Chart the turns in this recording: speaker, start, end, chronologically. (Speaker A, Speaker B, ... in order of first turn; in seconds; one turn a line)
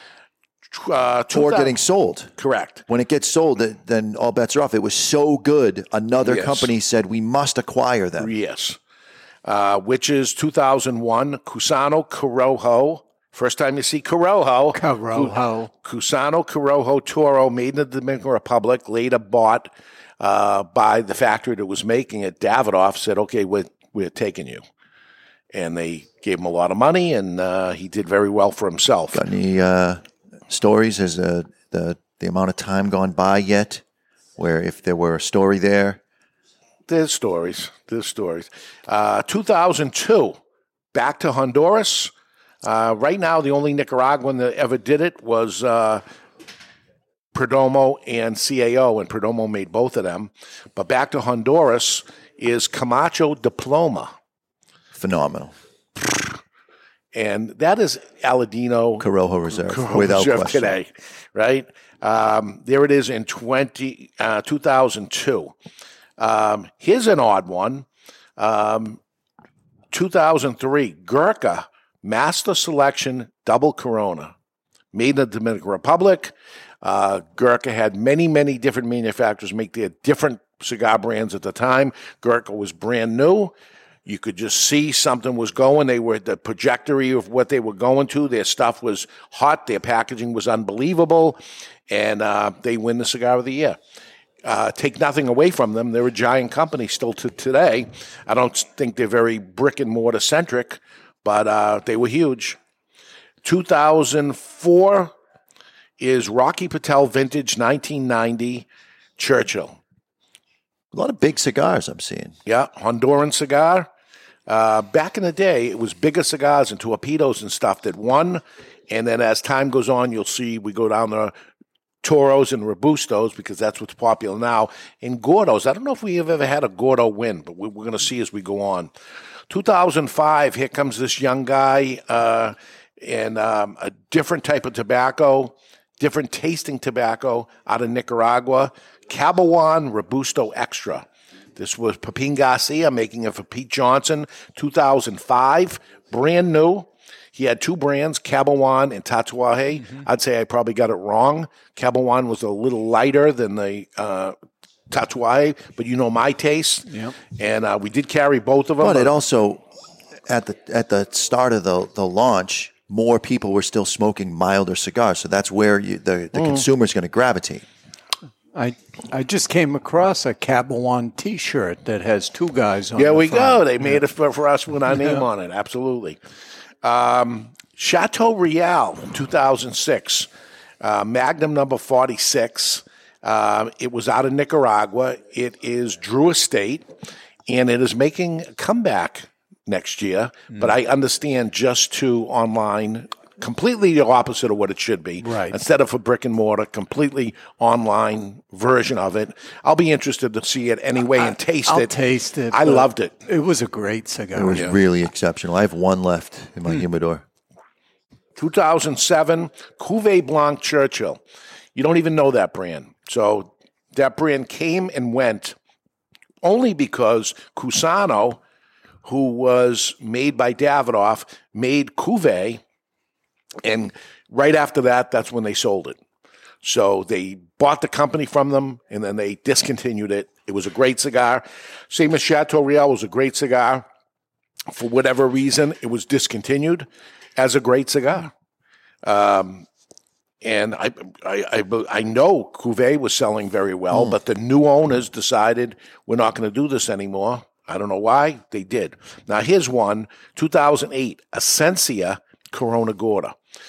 Speaker A: 0.7-1.8
Speaker B: 1.3-2.3
Speaker A: 2.4-2.8
Speaker B: 2.9-8.3
Speaker A: 6.2-6.7
Speaker A: 8.2-8.8
Speaker A: 9.4-24.6
Speaker C: 14.7-15.7
Speaker A: 25.5-29.2
Speaker B: 29.1-33.8
Speaker B: 34.4-36.0
Speaker A: 36.9-40.4
Speaker A: 40.9-42.1
Speaker A: 42.6-46.0
Speaker A: 47.3-54.1
Speaker B: 54.9-55.5
Speaker A: 57.1-65.5
Speaker B: 59.0-60.8
Speaker A: 66.2-67.9
Speaker A: 68.4-69.0
Speaker A: 69.9-74.3
Speaker A: 74.9-83.5
Speaker A: 84.1-93.8
Speaker A: 94.4-102.6
Speaker A: 103.4-105.1
Speaker A: 106.0-108.7
Speaker A: 109.2-109.8
Speaker B: 110.9-112.4
Speaker A: 112.5-113.9
Speaker A: 114.5-121.3
Speaker A: 122.0-128.9
Speaker A: 129.5-154.3
Speaker A: 154.9-159.1
Speaker C: 156.9-157.2
Speaker B: 158.8-159.7
Speaker B: 160.3-167.7
Speaker A: 166.3-166.7
Speaker C: 168.6-173.7
Speaker A: 173.0-176.2
Speaker A: 176.8-180.3
Speaker A: 180.8-186.9
Speaker A: 187.5-201.9
Speaker C: 195.2-195.6
Speaker C: 201.2-204.7
Speaker A: 202.5-203.2
Speaker B: 204.3-207.2
Speaker A: 208.4-211.2
Speaker A: 211.8-215.6
Speaker A: 216.4-218.4
Speaker A: 219.1-222.6
Speaker A: 223.6-226.0
Speaker A: 226.6-233.8
Speaker A: 234.7-238.3
Speaker A: 239.0-239.7
Speaker A: 240.4-253.3